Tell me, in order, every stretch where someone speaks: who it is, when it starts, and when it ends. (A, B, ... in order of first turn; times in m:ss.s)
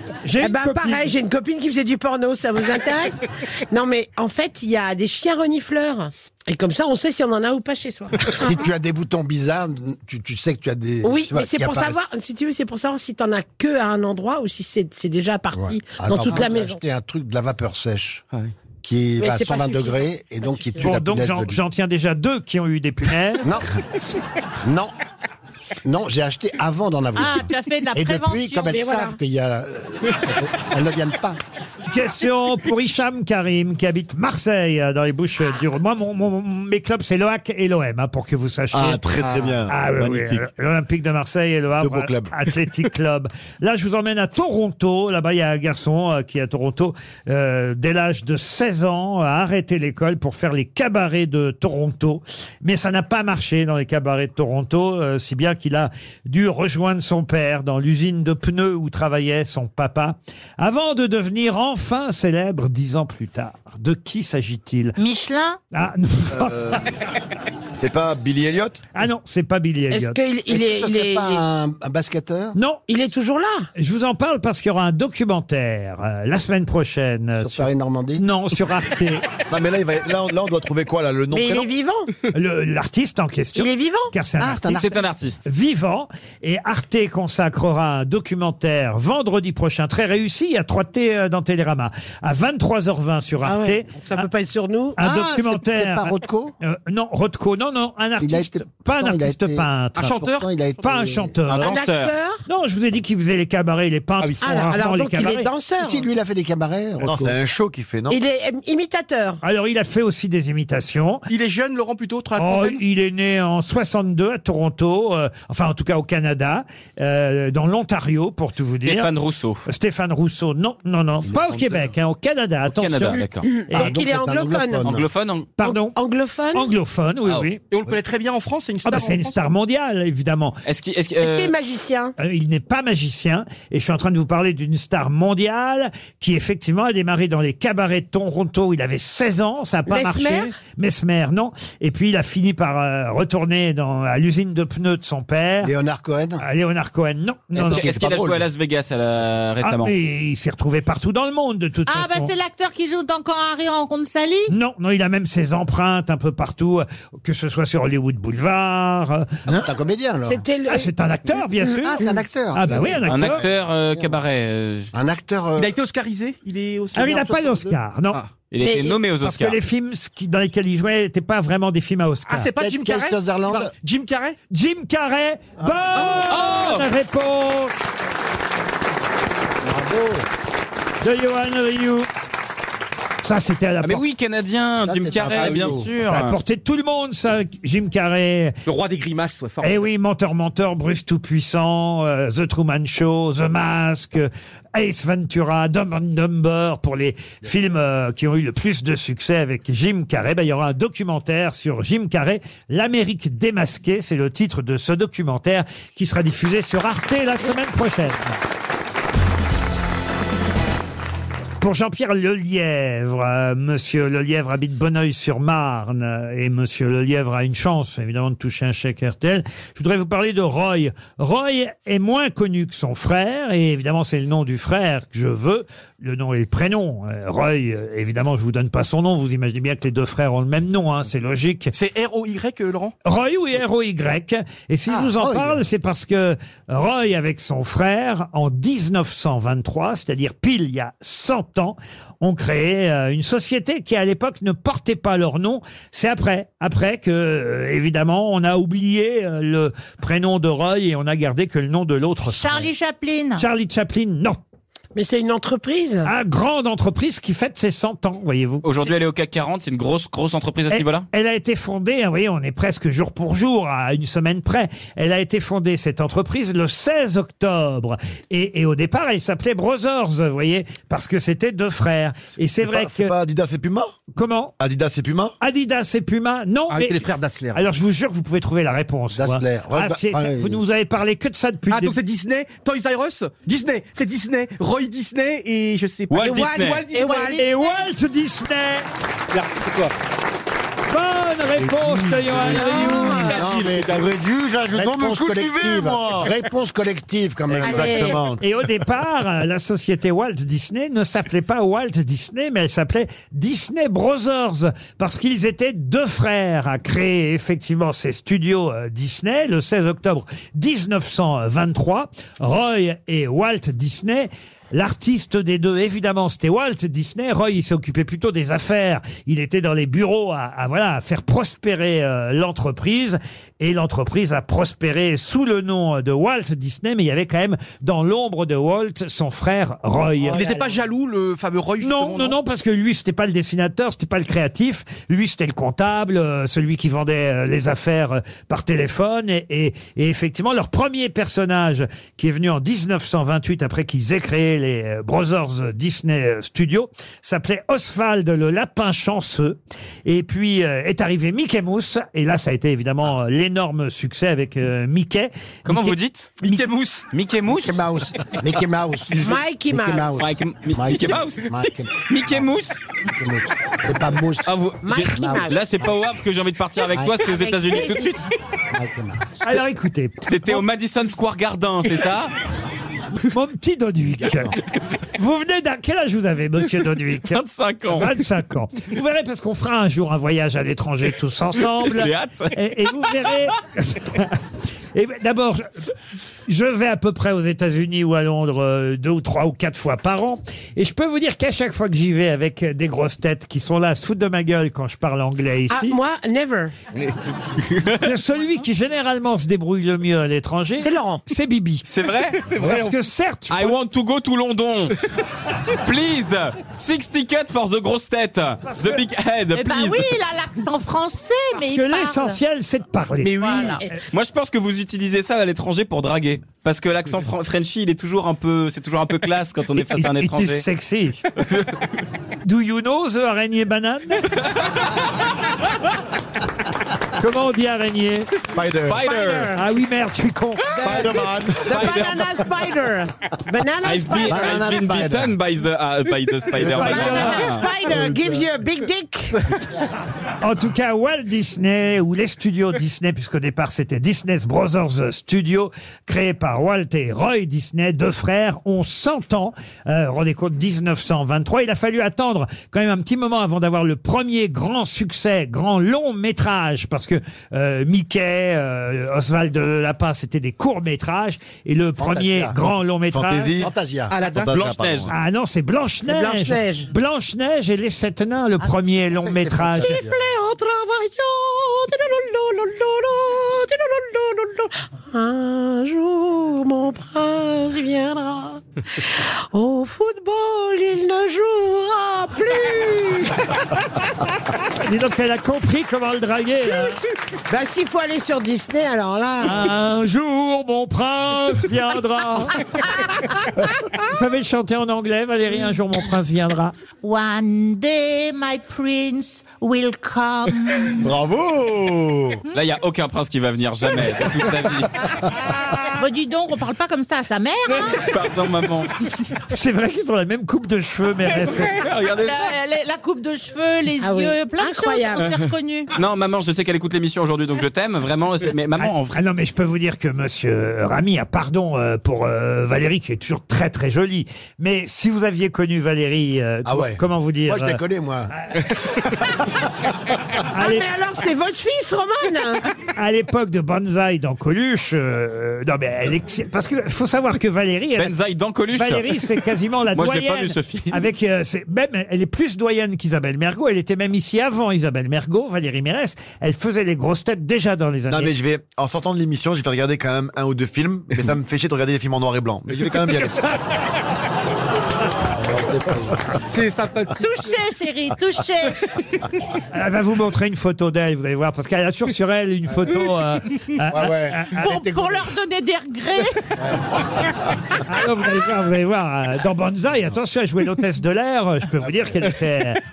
0:00.2-0:01.1 A
0:00.4-0:08.6 B
0:08.3-0:12.0 C
0:11.0-0:16.8 B
0:15.5-0:18.2 C
0:18.8-0:21.6 C
0:19.2-0:20.8 B
0:20.8-0:23.6 A
0:24.6-0:24.9 C
0:25.8-0:31.4 C
0:27.2-0:28.9 D
0:28.7-0:29.2 B
0:31.9-0:39.0 A
0:38.7-0:40.5 E
0:39.2-0:39.6 C
0:39.7-1:05.0 A
0:41.8-0:42.4 E
1:05.0-1:05.6 D
1:05.7-1:06.8 A
1:06.3-1:06.8 E
1:07.8-1:08.8 E
1:08.9-1:10.2 A
1:09.9-1:11.4 B
1:10.5-1:12.6 C
1:12.6-1:13.0 A
1:12.9-1:13.7 B
1:13.8-1:19.2 A
1:17.4-1:18.2 C
1:19.5-1:21.7 E
1:21.3-1:22.1 B
1:22.3-1:24.9 A
1:23.6-1:24.1 B
1:24.4-1:25.0 C
1:24.7-1:25.4 F
1:25.5-1:34.3 A
1:33.4-1:35.1 B
1:35.0-1:40.1 A
1:35.0-1:36.5 C
1:38.2-1:41.4 C
1:40.0-1:40.5 G
1:40.8-1:41.7 A
1:41.5-1:42.1 F
1:41.6-1:42.4 B
1:42.5-1:45.5 A
1:44.4-1:46.1 B
1:45.8-1:47.4 C
1:47.0-1:48.2 E
1:48.1-1:49.4 B
1:49.4-1:51.2 A
1:51.3-1:52.8 G
1:52.4-1:59.1 A
1:58.8-1:59.7 F
1:59.7-2:03.9 A
2:01.3-2:01.6 C
2:02.7-2:03.5 F
2:03.4-2:05.0 B
2:03.7-2:05.1 C
2:04.8-2:05.5 F
2:05.6-2:06.0 A
2:05.6-2:06.7 B
2:06.5-2:07.6 A
2:07.7-2:09.4 G
2:08.8-2:10.6 A
2:10.6-2:11.5 F
2:11.2-2:12.2 B
2:12.2-2:25.7 A
2:19.9-2:20.5 B
2:25.6-2:26.4 C
2:26.4-2:27.8 A
2:27.6-2:29.9 F
2:27.6-2:28.4 C
2:27.7-2:28.4 E
2:29.6-2:32.3 A
2:31.9-2:34.5 D
2:34.5-2:39.3 A
2:39.5-2:40.4 C
2:40.3-2:40.9 B
2:40.7-2:43.5 A
2:41.7-2:44.2 C
2:43.1-2:44.9 F
2:44.9-2:45.7 C
2:45.6-2:47.3 G
2:47.0-2:48.2 A
2:47.0-2:47.8 C
2:48.5-2:49.6 F
2:48.6-2:49.0 B
2:49.2-2:52.5 A
2:52.3-2:54.4 G
2:52.5-2:53.7 C
2:54.5-2:57.8 A
2:55.6-2:56.4 C
2:56.3-2:56.8 F
2:59.6-3:00.2 C
3:01.0-3:02.1 A
3:03.2-3:04.0 A
3:03.8-3:06.4 F
3:04.8-3:05.9 C
3:05.3-3:05.8 G
3:06.0-3:08.6 A
3:08.7-3:09.9 G
3:09.6-3:28.3 A
3:31.6-3:51.7 A
3:51.7-3:53.0 G
3:53.0-4:12.7 A
3:54.9-3:55.6 C
4:12.3-4:13.5 D
4:13.4-4:14.4 A
4:15.0-4:16.1 B
4:16.0-4:18.8 A
4:18.6-4:21.1 F
4:20.7-4:33.1 A
4:32.6-4:34.0 E
4:34.2-4:34.5 A
4:34.6-4:35.3 E
4:35.4-4:42.0 A
4:36.7-4:37.6 G
4:39.2-4:40.6 C
4:41.7-4:47.4 G
4:46.1-4:46.8 F
4:46.2-4:47.5 B
4:47.3-4:48.9 A
4:49.3-4:49.9 G
4:50.9-4:53.4 A
4:52.2-4:53.9 G
4:52.5-4:53.4 B
4:53.3-4:58.1 C
4:53.7-4:54.0 E
4:54.5-4:56.3 E
4:57.5-4:58.6 E
4:57.6-4:58.2 B
4:58.4-5:30.4 A
5:30.2-5:30.8 C
5:30.3-5:32.4 G
5:31.8-5:56.0 A
5:55.7-5:57.8 F
5:56.4-5:57.0 G
5:57.5-6:04.6 C
5:59.1-6:00.1 B
6:00.2-6:02.8 F
6:04.5-6:08.1 F
6:04.8-6:05.6 B
6:05.3-6:06.0 C
6:07.0-6:07.2 C
6:07.2-6:08.2 B
6:08.7-6:09.4 C
6:09.4-6:10.6 A
6:10.3-6:12.3 F
6:13.3-6:14.6 A
6:15.2-6:24.4 A
6:17.3-6:18.1 F
6:21.8-6:22.6 F
6:25.0-6:25.7 A
6:26.5-6:36.0 A
6:35.7-6:36.7 B
6:37.7-6:38.0 F
6:38.0-6:41.9 A
6:40.8-6:41.2 B
6:41.8-6:42.4 F
6:42.4-6:42.9 G
6:42.6-6:43.8 A
6:43.5-6:45.0 F
6:45.8-6:50.1 F
6:48.6-6:49.0 A
6:49.5-6:52.4 D
6:51.6-6:54.0 A
6:53.2-6:53.8 G
6:53.4-6:53.8 D
6:54.1-7:00.6 F
7:00.0-7:01.2 A
7:01.4-7:01.7 F
7:02.4-7:04.3 A
7:07.2-7:08.3 A
7:08.5-7:09.6 F
7:09.1-7:09.4 B
7:09.5-7:10.7 A
7:10.7-7:14.8 B
7:10.8-7:12.0 E
7:11.6-7:12.3 F
7:13.8-7:17.7 F
7:14.2-7:15.4 C
7:16.6-7:17.6 A
7:16.8-7:19.4 B
7:20.4-7:43.6 A
7:42.0-7:42.6 C
7:43.1-7:43.7 E
7:43.6-7:44.2 C
7:44.1-7:44.5 B
7:44.3-7:45.1 E
7:44.5-7:45.1 F
7:45.1-7:50.0 A
7:46.1-7:46.9 B
7:49.2-7:50.2 C
7:49.8-8:03.8 B
8:04.8-8:07.0 A
8:07.5-8:09.7 B
8:09.4-8:12.7 A
8:14.0-8:16.8 A
8:17.0-8:21.1 D
8:21.0-8:22.4 E
8:22.5-8:25.0 F
8:25.9-8:28.0 D
8:28.0-8:28.9 F
8:29.5-8:31.8 A
8:31.7-8:32.4 F
8:32.0-8:35.9 D
8:34.0-8:35.3 B
8:35.9-8:39.2 F
8:38.8-8:47.8 A
8:46.7-8:48.3 C
8:50.5-8:50.9 A
8:50.6-8:52.7 B
8:53.0-8:58.2 A
8:58.0-8:59.2 F
8:58.7-9:08.3 A
8:59.9-9:01.0 F
9:08.1-9:13.5 E
9:15.4-9:16.2 C
9:16.4-9:17.2 G
9:17.1-9:18.8 D
9:19.7-9:24.7 A
9:23.9-9:25.2 C
9:24.5-9:26.4 D
9:27.8-9:32.8 A